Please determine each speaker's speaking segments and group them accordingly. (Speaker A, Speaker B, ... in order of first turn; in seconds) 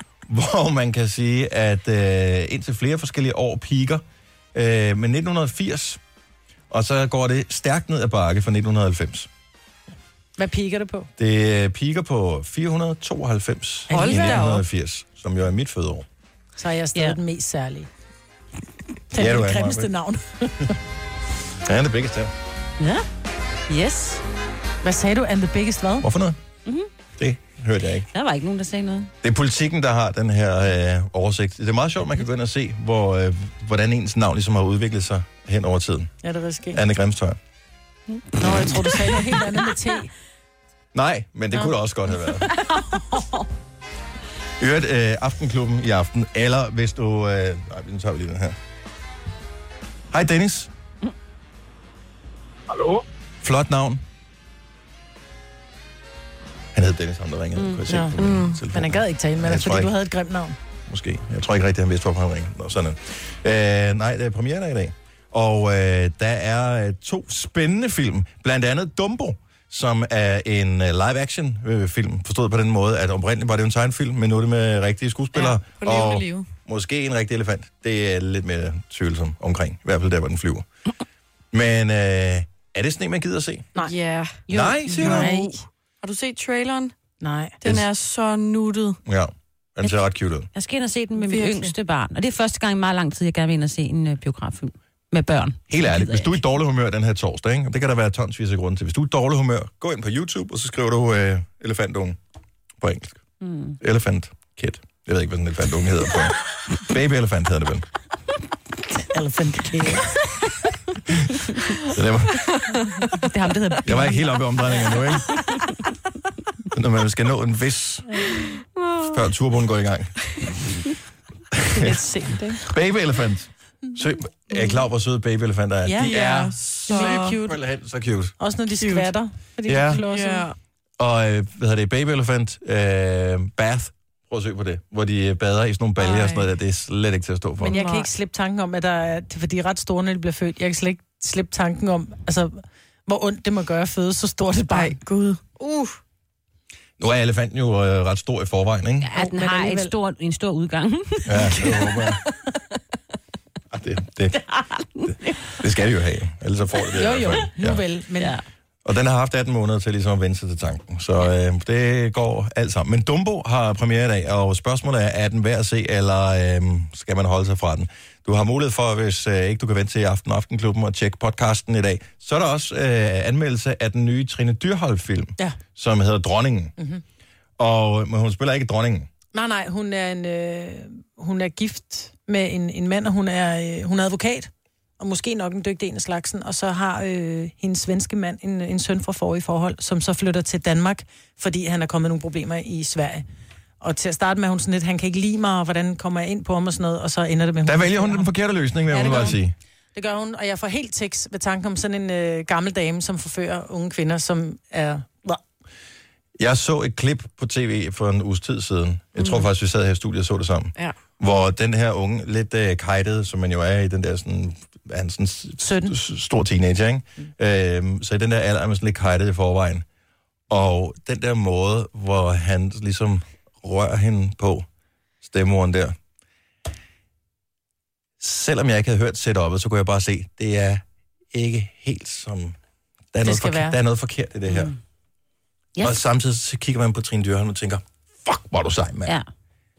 Speaker A: 0.3-6.0, 6.7-9.3, 11.2-16.1, 19.2-19.9, 21.6-22.3, 26.0-26.4, 27.2-28.1, 29.2-36.1, 36.7-37.4, 40.9-42.5, 44.6-48.6, 50.1-50.7, 53.4-54.0, 56.7-59.9, 60.9-80.7, 81.5-83.7, 84.5-85.3, 89.0-90.5, 95.7-102.2, 102.8-103.2, 103.8-107.9, 111.9-112.6, 113.8-115.4, 116.7-118.3, 119.1-120.2, 121.5-121.9, 122.6-128.4, 129.7-130.0, 131.0-137.8, 147.0-149.1, 151.3-152.2, 153.7-154.4, 155.1-157.8, 158.8-176.7, 177.6-179.1, 197.7-199.6, 206.4-219.8, 220.5-224.7, 225.2-226.0, 228.2-232.6, 233.1-234.7, 235.8-239.2
Speaker B: 10.4-11.1, 13.9-14.5, 16.6-17.9, 19.1-20.8, 24.8-26.1, 36.2-36.8, 38.4-40.1, 57.9-58.1, 58.7-60.6, 85.0-85.5, 87.2-87.5, 109.1-110.1, 113.7-114.0, 121.8-122.6, 125.8-127.6, 128.4-130.5, 137.7-145.0, 149.2-149.9, 157.0-158.3, 176.8-177.0, 179.3-193.2, 193.8-198.3, 198.9-199.4, 199.9-205.4, 215.6-215.9, 233.2-233.8
Speaker C: 13.9-14.6, 58.2-58.6, 75.4-76.5, 83.8-86.9, 87.6-89.0, 91.2-91.8, 112.5-113.0, 118.8-119.2, 126.0-127.4, 128.8-129.1, 129.9-130.6, 136.0-136.5, 137.6-138.1, 144.7-145.9
Speaker D: 22.8-23.1, 23.7-24.2, 28.1-29.1, 38.8-39.1, 42.5-43.5, 57.6-57.8, 84.5-85.0, 90.5-96.4, 103.4-103.8, 113.3-114.1, 149.0-151.7, 154.5-155.6, 234.5-234.8